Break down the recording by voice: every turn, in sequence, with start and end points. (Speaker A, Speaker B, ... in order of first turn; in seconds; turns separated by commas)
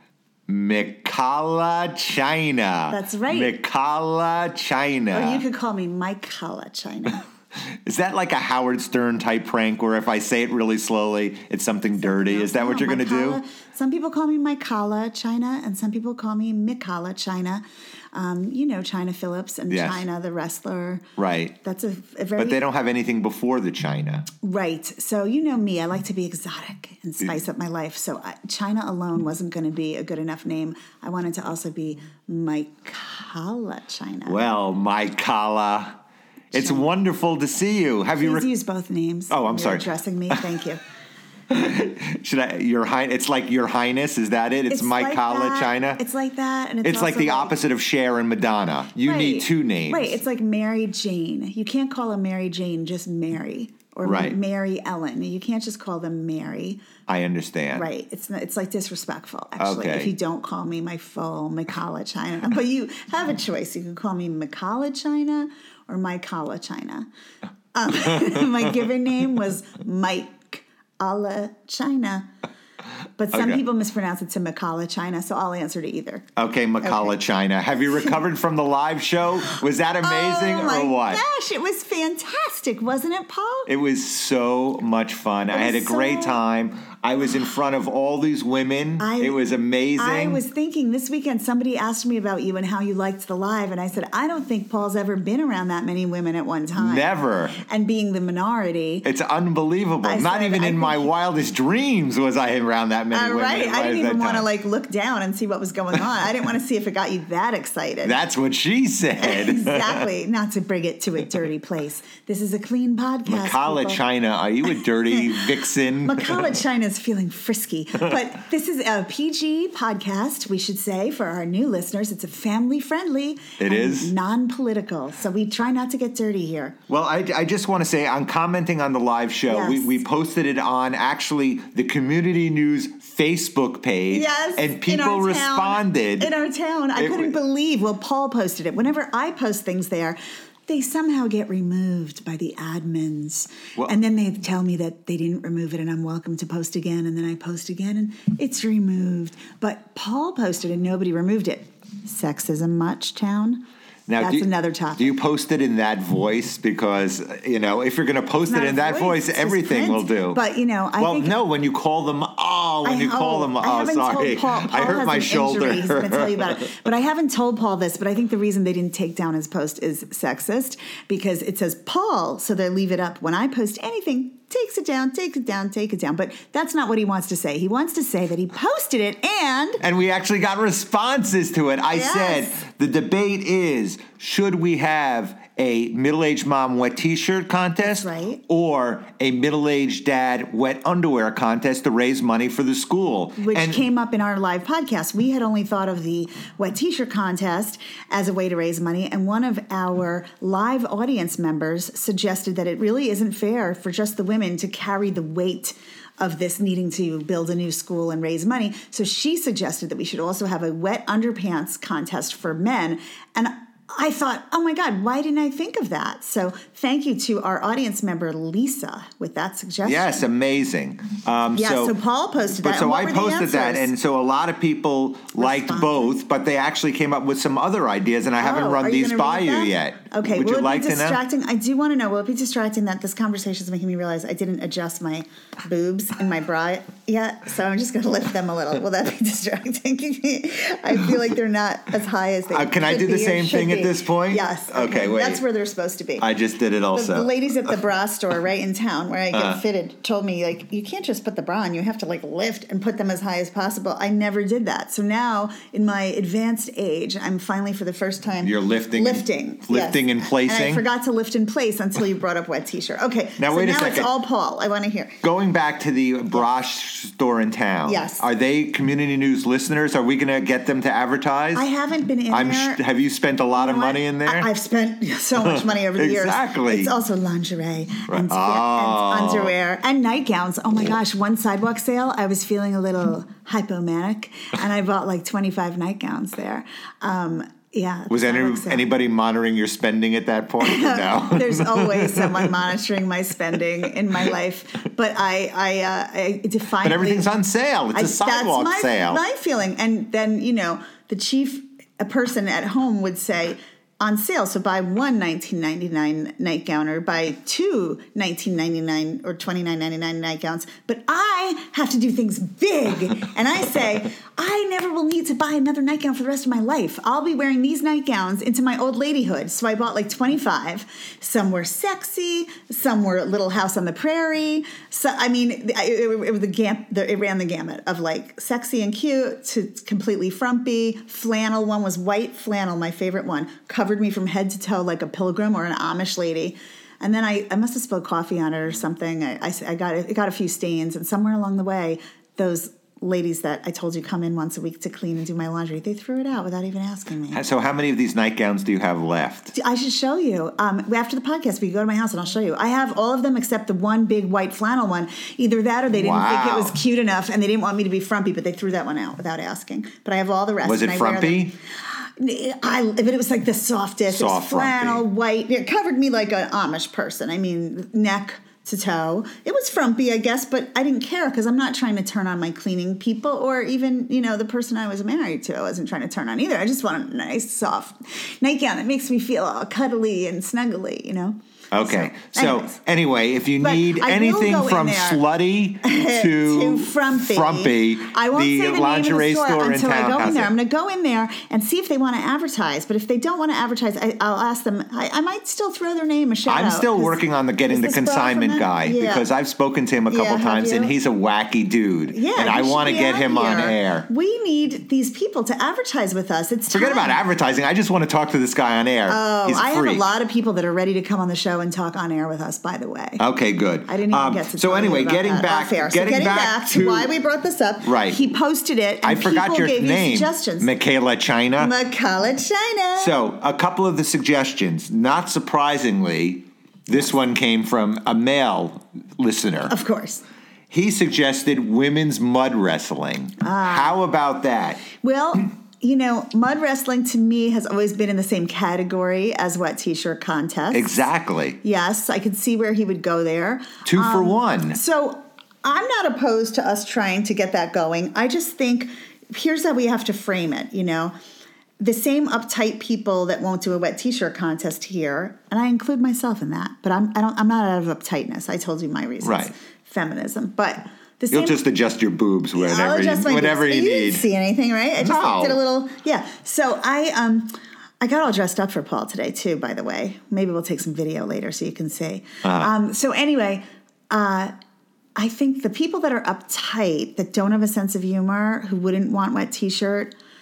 Speaker A: 0.5-5.4, Speaker B: 2.9-3.5, Speaker B: 5.1-7.2, Speaker A: 7.8-13.4, Speaker B: 12.0-21.1, Speaker A: 19.7-20.0, Speaker A: 21.2-21.5, Speaker B: 21.6-22.6, Speaker A: 22.4-24.3, Speaker B: 24.4-34.4, Speaker A: 34.2-36.0, Speaker B: 36.5-36.9, Speaker A: 36.5-38.5, Speaker B: 38.2-40.8, Speaker A: 39.3-40.4, Speaker A: 41.5-46.0, Speaker B: 44.7-47.6, Speaker A: 46.8-50.2, Speaker B: 49.0-56.8, Speaker A: 54.0-54.4, Speaker A: 57.1-57.9, Speaker B: 57.7-67.1, Speaker A: 59.6-60.1, Speaker B: 67.7-72.3, Speaker B: 73.2-76.3, Speaker A: 73.3-73.6, Speaker A: 76.4-81.2, Speaker B: 76.8-77.1, Speaker B: 80.0-83.7, Speaker A: 83.7-90.4, Speaker B: 85.5-86.4, Speaker B: 89.0-89.4, Speaker B: 90.0-99.0, Speaker A: 96.7-97.6, Speaker A: 99.0-104.5, Speaker B: 100.0-101.1, Speaker B: 103.1-108.2, Speaker A: 108.0-110.0, Speaker B: 109.2-114.0, Speaker A: 113.2-116.6, Speaker B: 115.1-115.5, Speaker B: 116.0-126.8, Speaker A: 123.6-124.1, Speaker A: 126.9-136.3, Speaker B: 129.5-130.0, Speaker B: 134.1-153.6, Speaker A: 136.9-137.3, Speaker A: 154.1-160.4, Speaker B: 154.2-155.2, Speaker B: 158.5-161.3, Speaker A: 161.0-166.7, Speaker B: 162.8-179.8, Speaker A: 179.8-193.8, Speaker B: 181.9-182.6, Speaker B: 187.8-188.4, Speaker B: 193.4-220.2, Speaker A: 219.8-221.9, Speaker B: 221.5-223.9, Speaker A: 222.5-231.2, Speaker B: 225.4-226.2, Speaker B: 228.4-246.3, Speaker A: 242.5-245.4, Speaker A: 246.2-247.3, Speaker B: 246.9-265.2, Speaker A: 249.3-249.6, Speaker A: 258.4-260.8, Speaker A: 263.4-264.1, Speaker A: 265.2-271.6, Speaker B: 267.8-268.2, Speaker B: 271.5-272.8, Speaker A: 272.3-274.5, Speaker B: 273.6-288.9, Speaker A: 275.4-276.9, Speaker A: 278.1-279.5, Speaker A: 288.1-292.6, Speaker B: 290.6-297.3, Speaker A: 296.8-299.2, Speaker B: 297.9-347.4, Speaker A: 347.3-349.5, Speaker B: 349.5-382.8, Speaker A: 355.9-356.8, Speaker A: 360.6-361.5, Speaker A: 364.1-365.0, Speaker A: 381.7-390.5, Speaker B: 383.6-385.2, Speaker B: 385.8-399.3, Speaker A: 396.5-404.1, Speaker B: 400.1-400.9, Speaker B: 402.1-407.2, Speaker A: 406.7-410.1, Speaker B: 409.1-413.2, Speaker A: 413.2-417.1, Speaker B: 413.9-420.7, Speaker A: 417.8-418.3, Speaker A: 419.0-421.7, Speaker B: 421.6-423.1, Speaker A: 423.0-429.7, Speaker B: 429.7-430.2, Speaker A: 430.7-434.9, Speaker B: 433.4-434.0, Speaker B: 434.9-440.9, Speaker A: 440.7-441.6, Speaker B: 441.6-451.1, Speaker A: 443.8-444.8, Speaker B: 451.8-461.7, Speaker A: 459.2-459.5, Speaker A: 461.3-464.2, Speaker B: 462.5-474.5, Speaker A: 465.0-465.6, Speaker A: 472.4-472.7, Speaker B: 475.2-480.1